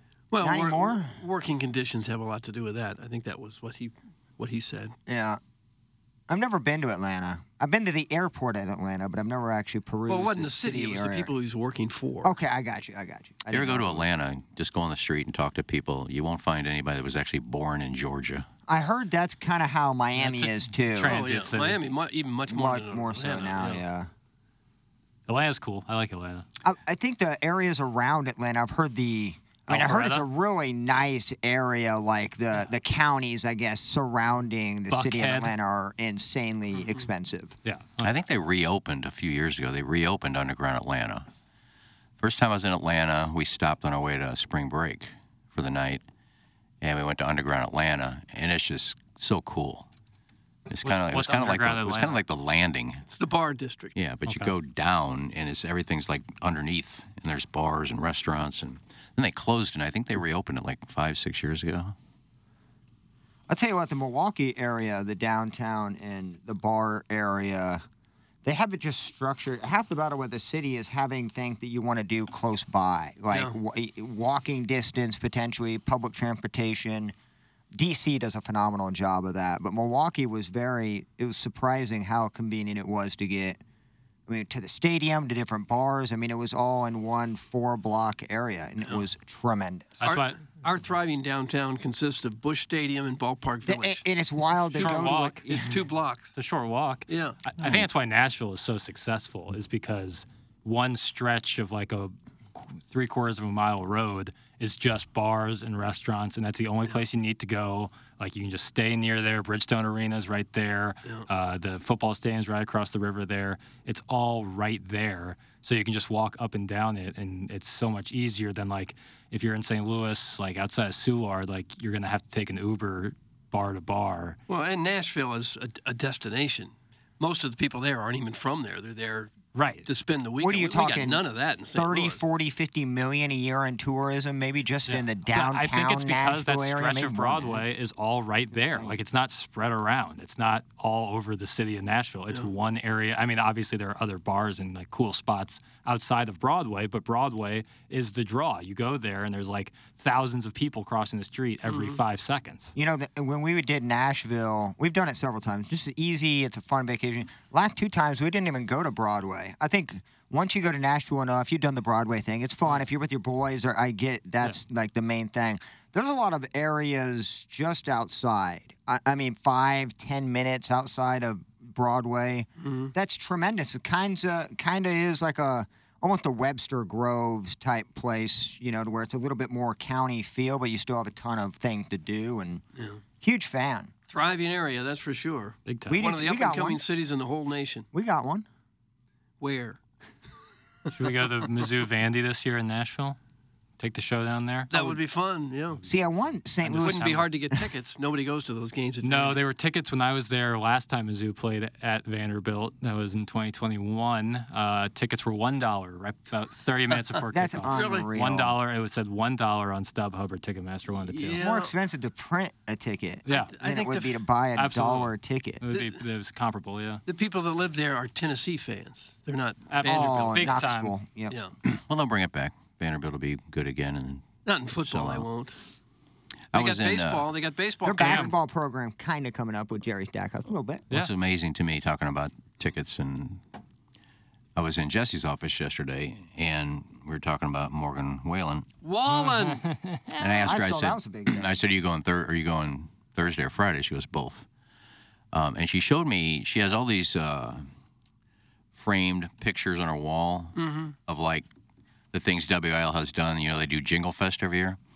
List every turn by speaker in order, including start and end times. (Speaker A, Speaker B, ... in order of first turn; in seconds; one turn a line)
Speaker A: 0.3-4.9
Speaker B: 0.4-1.1
Speaker B: 5.1-5.4
Speaker B: 6.3-11.3
Speaker A: 10.1-12.3
Speaker B: 12.2-14.1
Speaker C: 13.5-18.5
Speaker B: 18.7-21.2
Speaker D: 20.2-21.8
Speaker A: 21.0-23.8
Speaker B: 22.5-24.1
Speaker D: 25.3-26.5
Speaker B: 26.6-37.6
Speaker D: 29.7-30.2
Speaker D: 34.9-35.5
Speaker D: 37.6-38.1
Speaker C: 38.0-41.3
Speaker C: 42.2-46.0
Speaker C: 46.8-49.9
Speaker C: 50.7-53.0
Speaker D: 50.8-52.2
Speaker A: 53.1-53.9
Speaker C: 54.0-62.0
Speaker D: 54.3-54.5
Speaker B: 63.5-67.8
Speaker B: 68.4-77.2
Speaker B: 77.7-83.6
Speaker B: 84.3-90.0
Speaker D: 90.0-90.5
Speaker A: 90.0-94.0
Speaker B: 93.7-95.8
Speaker A: 94.7-96.3
Speaker D: 94.7-95.7
Speaker D: 96.3-124.4
Speaker A: 97.1-97.4
Speaker A: 124.5-129.3
Speaker D: 129.5-129.9
Speaker A: 129.8-132.2
Speaker B: 130.4-137.6
Speaker D: 134.9-152.7
Speaker B: 138.5-139.0
Speaker A: 151.7-152.0
Speaker B: 152.8-182.6
Speaker A: 172.6-172.9
Speaker A: 182.8-183.0
Speaker B: 183.2-183.9
Speaker A: 184.1-187.9
Speaker D: 185.7-186.0
Speaker B: 185.9-186.8
Speaker B: 187.9-188.5
Speaker A: 189.4-189.8
Speaker D: 190.9-193.2
Speaker D: 193.8-194.7
Speaker A: 194.7-195.8
Speaker B: 195.8-197.6
Speaker D: 196.6-197.3
Speaker A: 196.8-199.4
Speaker D: 199.0-211.4
Speaker B: 207.3-208.6
Speaker A: 207.7-208.1
Speaker A: 211.1-211.7
Speaker B: 211.3-215.6
Speaker D: 213.3-213.5
Speaker A: 213.3-214.2
Speaker D: 214.6-217.0
Speaker A: 215.7-216.0
Speaker A: 217.1-220.6
Speaker D: 219.7-220.9
Speaker B: 219.8-221.3
Speaker C: 221.7-224.3
Speaker A: 224.5-225.6
Speaker C: 224.8-225.3
Speaker C: 226.5-227.3
Speaker A: 226.5-228.3
Speaker B: 227.8-230.9
Speaker D: 228.0-228.3
Speaker C: 230.9-233.4
Speaker C: 234.6-238.7
Speaker A: 238.8-239.6
Speaker D: 239.1-240.4
Speaker C: 240.2-244.5
Speaker B: 240.4-241.6
Speaker C: 245.3-247.7
Speaker C: 248.8-251.5
Speaker A: 250.6-250.9
Speaker C: 252.1-254.8